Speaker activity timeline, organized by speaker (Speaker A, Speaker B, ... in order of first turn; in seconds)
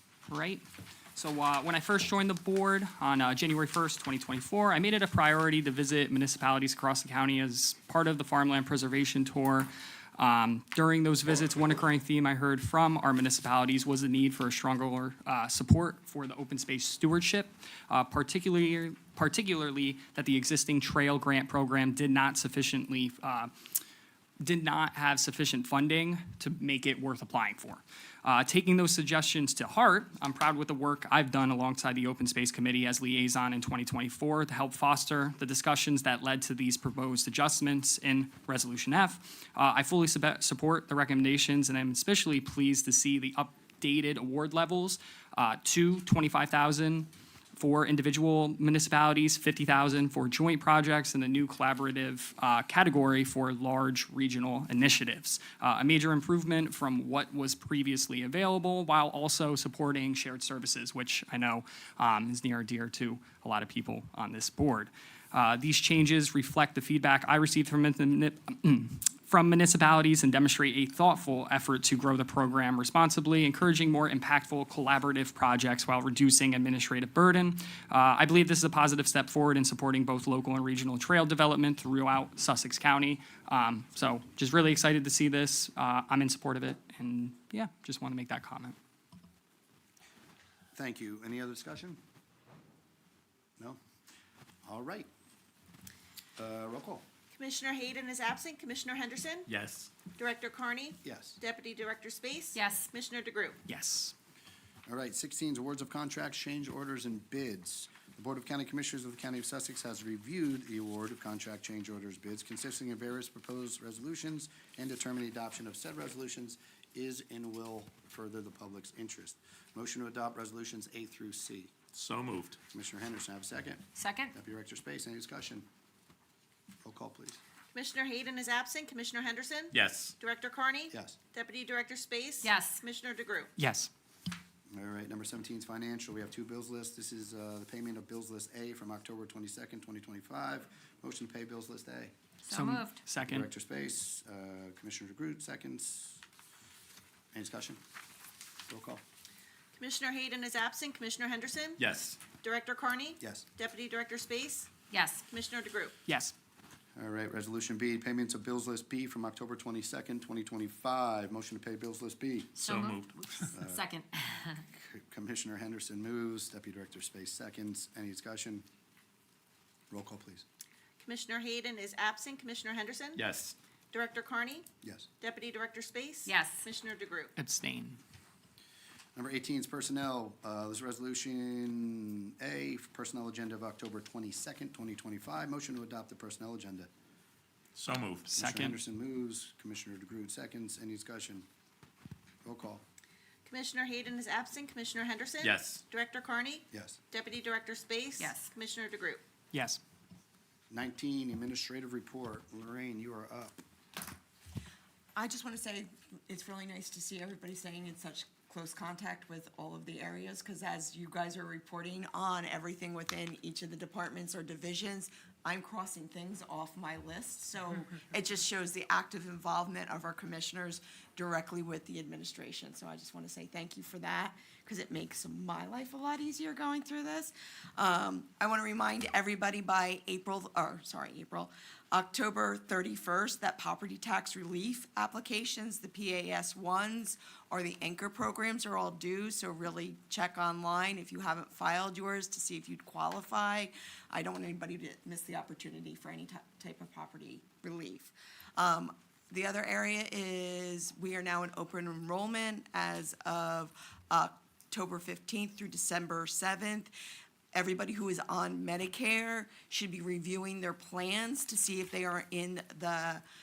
Speaker A: 0.2-0.6, 1.1-23.5, 24.4-88.8, 103.7-104.1, 133.6-133.9, 142.5-143.5, 156.1-156.3, 177.3-178.0, 188.2-188.8, 199.5-199.8
Speaker B: 90.7-92.0, 94.6-95.1, 96.4-97.0, 101.0-101.4, 104.8-121.8, 122.7-125.7, 126.8-127.4, 130.9-131.2, 134.7-142.1, 143.2-146.2, 147.3-147.8, 148.7-149.0, 153.2-153.4, 156.9-162.7, 163.5-163.9, 164.7-168.6, 169.9-170.4, 174.8-175.1, 179.1-186.9, 188.3-191.5, 192.4-192.8, 196.7-197.0, 200.7-203.6
Speaker C: 97.3-99.5, 100.1-103.6, 127.7-133.5, 149.8-154.7, 155.3-155.9, 171.0-173.2, 173.9-174.7, 175.2-177.3, 193.4-199.2
Speaker D: 99.5-99.9, 121.9-122.6, 129.7-130.1, 151.8-152.2, 162.7-163.5, 173.2-173.5, 187.7-188.3, 195.4-195.8
Speaker E: 102.5-102.9, 124.0-124.3, 132.4-132.8, 142.4-143.0, 154.9-155.2, 162.6-164.6, 176.2-176.6, 198.2-198.5
Speaker F: 205.1-256.9, 257.5-263.2